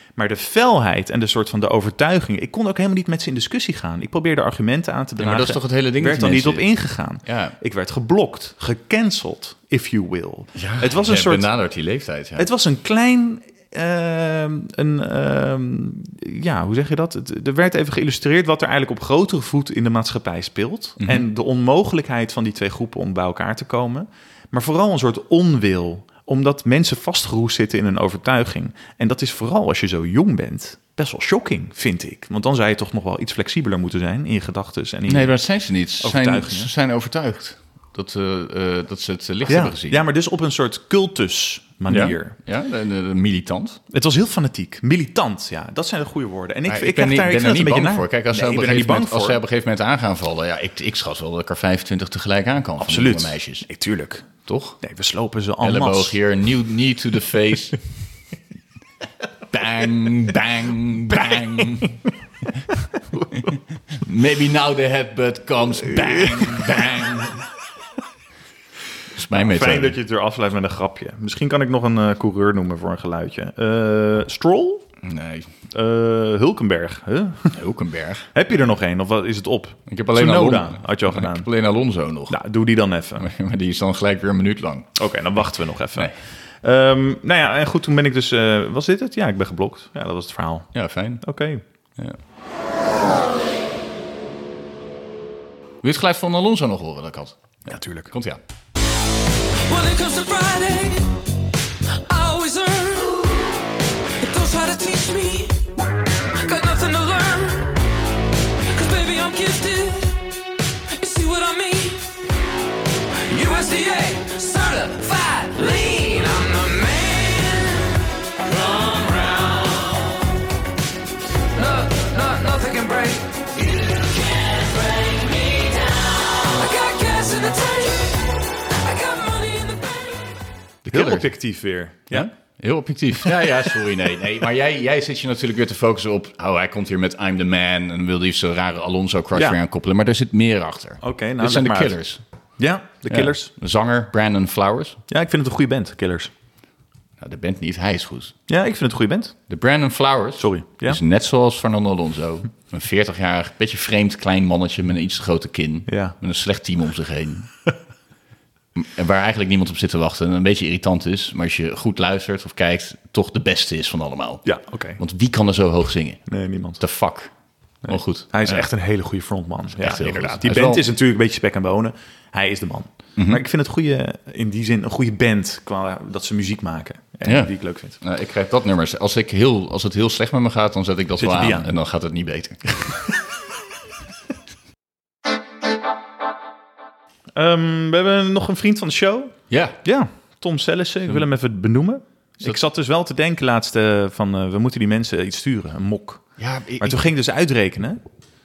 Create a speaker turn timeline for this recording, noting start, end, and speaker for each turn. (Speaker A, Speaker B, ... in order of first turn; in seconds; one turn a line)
Speaker A: 0.2-11.5
Speaker B: 5.2-7.6
Speaker B: 10.6-12.5
Speaker A: 12.4-35.5
Speaker B: 21.0-21.3
Speaker B: 35.1-40.0
Speaker A: 36.0-36.7
Speaker A: 39.5-42.4
Speaker B: 41.9-43.8
Speaker A: 43.9-49.4
Speaker B: 46.7-53.7
Speaker A: 52.8-54.3
Speaker B: 54.5-54.8
Speaker A: 54.8-56.2
Speaker B: 55.6-57.8
Speaker B: 59.5-62.0
Speaker A: 61.1-61.9
Speaker A: 63.1-63.5
Speaker B: 63.3-67.5
Speaker A: 66.3-67.1
Speaker B: 69.1-70.0
Speaker A: 69.3-74.8
Speaker B: 75.0-75.5
Speaker A: 75.7-77.6
Speaker B: 77.5-78.3
Speaker A: 78.3-81.5
Speaker B: 79.9-82.4
Speaker A: 82.3-83.3
Speaker B: 83.2-85.0
Speaker A: 85.0-91.6
Speaker B: 90.7-91.2
Speaker B: 95.8-98.4
Speaker A: 97.7-98.1
Speaker C: 99.7-101.1
Speaker C: 102.1-105.7
Speaker C: 106.4-107.8
Speaker C: 108.7-110.2
Speaker C: 110.9-112.1
Speaker C: 113.3-120.2
Speaker C: 121.5-130.3
Speaker B: 130.8-131.3
Speaker A: 130.9-132.3
Speaker B: 132.1-142.2
Speaker A: 141.0-142.0
Speaker A: 142.6-143.5
Speaker B: 143.1-145.0
Speaker A: 145.1-146.3
Speaker B: 147.2-148.3
Speaker A: 148.5-149.3
Speaker B: 149.5-157.5
Speaker A: 150.4-151.0
Speaker A: 155.9-156.2
Speaker B: 158.7-167.3
Speaker A: 164.4-165.0
Speaker A: 166.3-166.8
Speaker A: 167.8-178.0
Speaker B: 167.9-168.7
Speaker B: 169.8-170.8
Speaker B: 173.2-173.4
Speaker B: 177.2-182.7
Speaker A: 181.2-181.7
Speaker A: 187.4-198.0
Speaker B: 189.5-189.8
Speaker B: 196.4-197.0